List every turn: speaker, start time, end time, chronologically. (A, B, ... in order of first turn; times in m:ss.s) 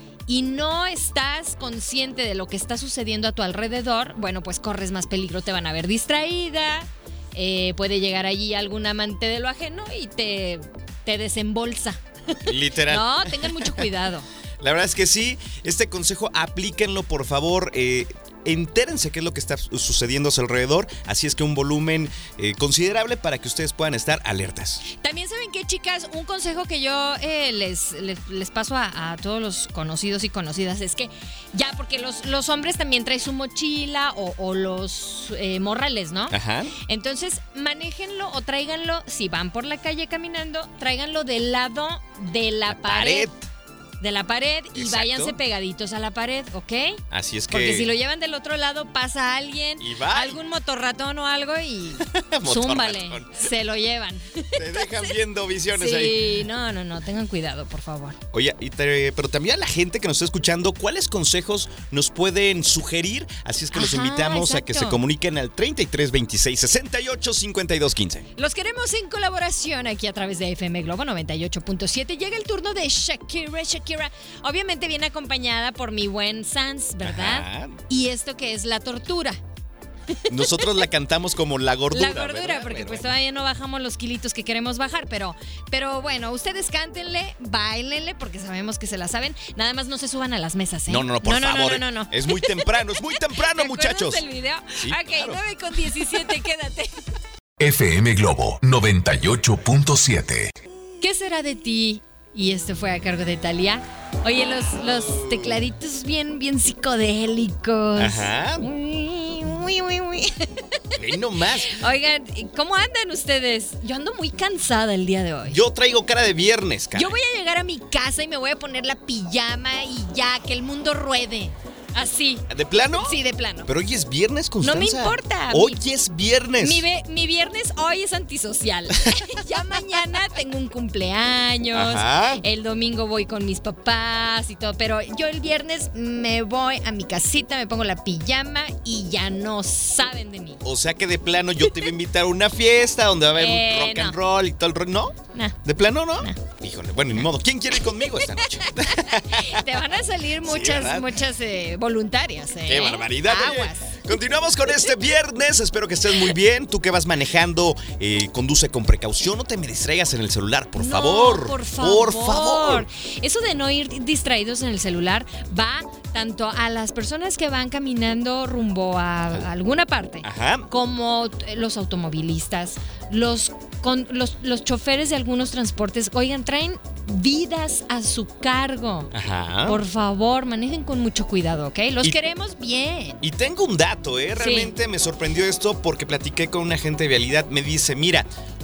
0:00.3-0:14.3 A
0:12.4-0:13.8 B
0:14.6-0:24.8 B
0:24.9-0:43.3 A
0:36.3-0:36.7 B
0:42.7-0:43.4 B
0:44.0-0:55.1 A
0:44.8-0:45.4 B
0:47.1-0:47.9 B
0:49.8-0:50.4 B
0:52.0-0:53.4 B
0:54.6-0:56.2 B
0:55.8-0:58.2 A
0:58.3-1:08.2 B
1:03.7-1:05.0 A
1:08.4-1:19.4 A
1:17.0-1:17.8 B
1:20.2-1:20.7 A
1:20.3-1:23.1 B
1:21.9-1:37.0 A
1:30.9-1:34.2 B
1:34.8-1:35.4 B
1:37.6-1:40.5 C
1:41.0-1:51.0 A
1:48.0-1:48.6 B
1:51.0-1:51.8 B
1:51.6-1:55.6 A
1:55.5-1:57.2 B
1:57.0-2:03.7 A
2:02.5-2:03.2 B
2:03.7-2:06.8 B
2:04.6-2:05.8 A
2:06.6-2:20.6 A
2:11.7-2:12.4 B
2:20.6-2:29.8 B
2:23.4-2:24.2 A
2:27.8-2:34.1 A
2:30.4-2:31.1 B
2:32.7-2:42.9 B
2:40.8-2:59.1 A
2:50.2-2:50.7 B
2:59.1-2:59.8 B
2:59.7-3:03.2 A
3:03.2-3:08.3 B
3:04.4-3:04.8 A